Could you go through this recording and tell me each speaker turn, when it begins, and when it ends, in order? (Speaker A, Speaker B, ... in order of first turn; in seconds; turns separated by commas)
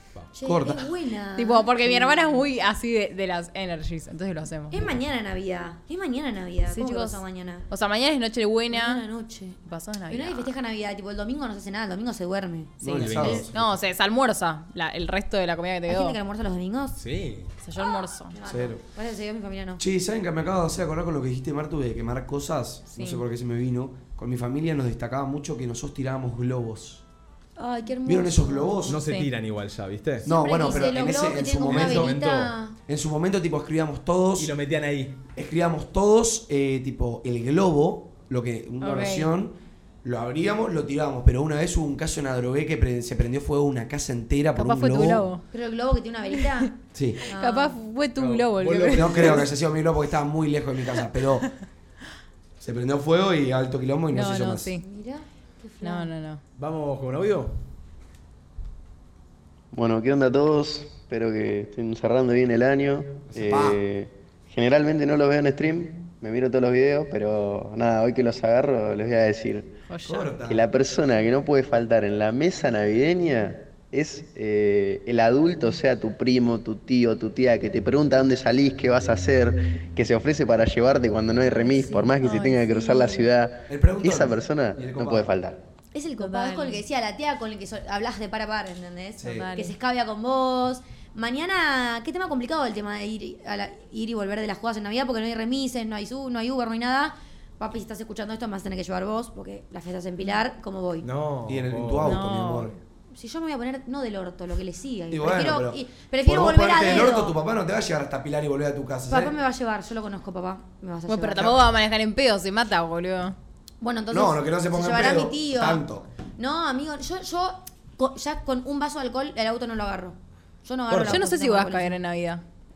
Speaker A: 0.3-2.4, Speaker B: 0.4-0.9, Speaker C: 1.4-4.8, Speaker A: 4.7-7.7, Speaker C: 6.7-9.0, Speaker A: 8.7-9.6, Speaker C: 9.6-10.5, Speaker A: 10.1-13.4, Speaker B: 12.8-13.7, Speaker C: 12.9-16.2, Speaker D: 13.0-13.5, Speaker A: 15.9-17.0, Speaker D: 17.0-17.5, Speaker C: 17.6-18.4, Speaker A: 17.8-19.8, Speaker B: 18.4-18.8, Speaker B: 19.8-27.0, Speaker C: 22.9-23.2, Speaker A: 27.6-29.0, Speaker B: 28.1-29.0, Speaker D: 28.9-30.2, Speaker C: 29.0-29.3, Speaker B: 30.2-32.2, Speaker A: 30.2-32.7, Speaker D: 31.0-32.5, Speaker B: 32.9-34.5, Speaker D: 34.4-35.2, Speaker B: 35.3-45.3, Speaker C: 38.8-39.3, Speaker C: 44.5-45.4, Speaker A: 45.5-46.8, Speaker C: 46.3-46.6, Speaker B: 46.9-47.2, Speaker A: 47.3-47.8, Speaker C: 47.3-49.4, Speaker D: 48.2-49.5, Speaker B: 48.9-51.5, Speaker B: 52.6-54.7, Speaker C: 54.1-54.8, Speaker A: 54.8-56.1, Speaker C: 55.8-56.4, Speaker D: 56.6-57.5, Speaker E: 59.7-69.7, Speaker B: 63.3-63.8, Speaker C: 69.9-70.3, Speaker B: 70.0-70.6, Speaker E: 70.5-85.6, Speaker A: 81.5-83.1, Speaker C: 81.8-83.2, Speaker B: 83.7-85.3, Speaker A: 85.9-101.1, Speaker C: 86.2-86.8, Speaker B: 89.2-89.5, Speaker C: 89.2-89.7, Speaker D: 101.0-102.1, Speaker B: 101.5-102.7, Speaker C: 102.0-102.7, Speaker A: 103.1-107.3, Speaker B: 105.1-109.3, Speaker A: 109.1-111.5, Speaker C: 111.1-113.3, Speaker A: 113.8-115.8, Speaker B: 114.1-116.1, Speaker A: 116.4-122.0, Speaker D: 120.9-121.2, Speaker C: 121.1-122.4